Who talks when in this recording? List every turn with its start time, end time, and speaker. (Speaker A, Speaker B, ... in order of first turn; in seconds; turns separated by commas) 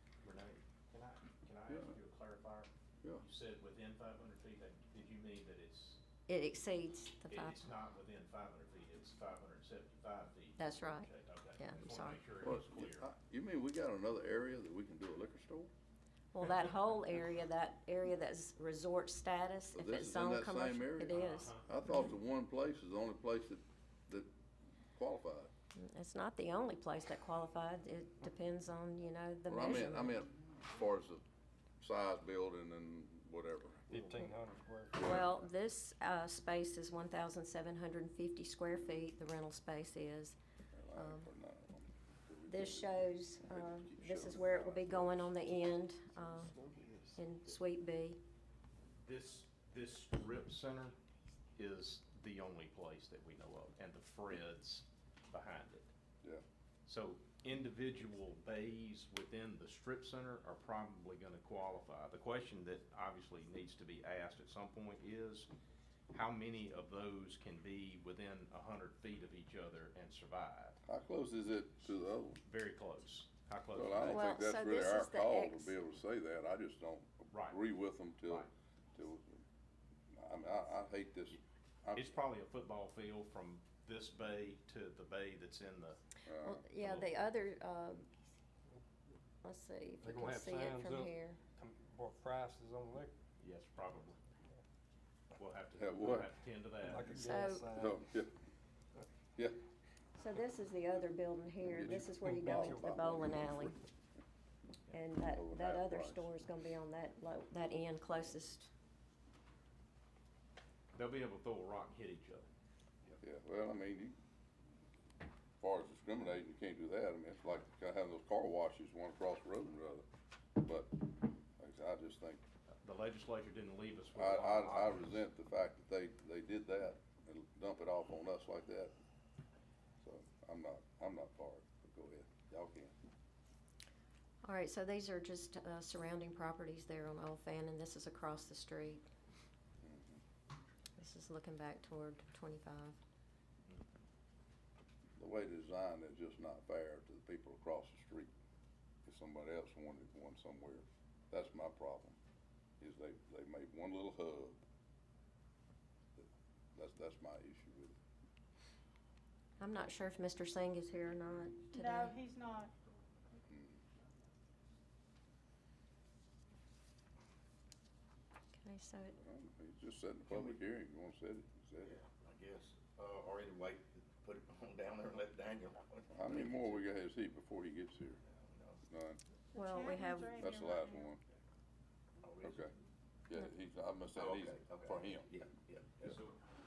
Speaker A: 0.2-6.0, Speaker B: 1.7-1.9, Speaker C: 6.3-7.7, Speaker A: 7.3-13.1, Speaker C: 10.6-12.2, Speaker B: 12.4-15.7, Speaker C: 16.3-21.5, Speaker B: 19.7-24.3, Speaker A: 21.1-21.7, Speaker B: 24.9-25.5, Speaker C: 25.8-30.2, Speaker B: 29.5-31.2, Speaker B: 31.8-33.9, Speaker D: 33.9-35.1, Speaker C: 35.0-40.4, Speaker B: 35.0-35.2, Speaker B: 40.7-45.5, Speaker C: 40.9-41.3, Speaker C: 42.5-46.6, Speaker B: 46.5-46.9, Speaker C: 47.1-48.2, Speaker A: 49.0-51.0, Speaker A: 51.5-55.9, Speaker A: 56.9-65.5, Speaker A: 66.1-70.8, Speaker B: 70.8-72.4, Speaker A: 72.4-74.3, Speaker B: 73.7-79.4, Speaker C: 74.1-75.7, Speaker A: 77.3-77.6, Speaker B: 80.1-82.1, Speaker A: 81.9-86.0, Speaker B: 86.2-86.6, Speaker C: 86.3-88.1, Speaker A: 86.8-87.1, Speaker C: 89.4-91.4, Speaker D: 90.0-93.2, Speaker A: 93.4-94.2, Speaker A: 95.3-97.2, Speaker B: 95.7-96.3, Speaker D: 96.8-98.0, Speaker C: 97.2-97.7, Speaker B: 97.7-98.3, Speaker C: 100.2-103.7, Speaker B: 101.7-103.7, Speaker D: 102.1-102.8, Speaker C: 104.9-108.7, Speaker B: 105.2-106.3, Speaker A: 110.9-112.5, Speaker B: 113.2-114.2, Speaker B: 115.6-120.0, Speaker B: 120.6-122.4, Speaker A: 122.8-125.2, Speaker B: 124.1-128.9, Speaker B: 130.0-132.9, Speaker C: 134.4-139.1, Speaker B: 139.8-140.2, Speaker C: 141.0-143.0, Speaker B: 145.2-148.3, Speaker B: 149.0-152.2, Speaker B: 152.8-154.6, Speaker B: 156.2-157.9, Speaker C: 159.6-162.2, Speaker E: 161.7-162.7, Speaker B: 163.5-163.8, Speaker C: 168.5-169.2, Speaker B: 169.2-171.9, Speaker F: 170.3-170.6, Speaker F: 171.8-176.8, Speaker B: 176.1-178.2, Speaker F: 178.3-178.8, Speaker B: 178.8-179.2, Speaker E: 179.5-181.1, Speaker C: 179.5-180.6, Speaker B: 180.4-181.2, Speaker F: 182.2-182.7, Speaker B: 182.4-182.7, Speaker B: 183.3-185.3, Speaker F: 184.2-186.2, Speaker A: 186.0-186.4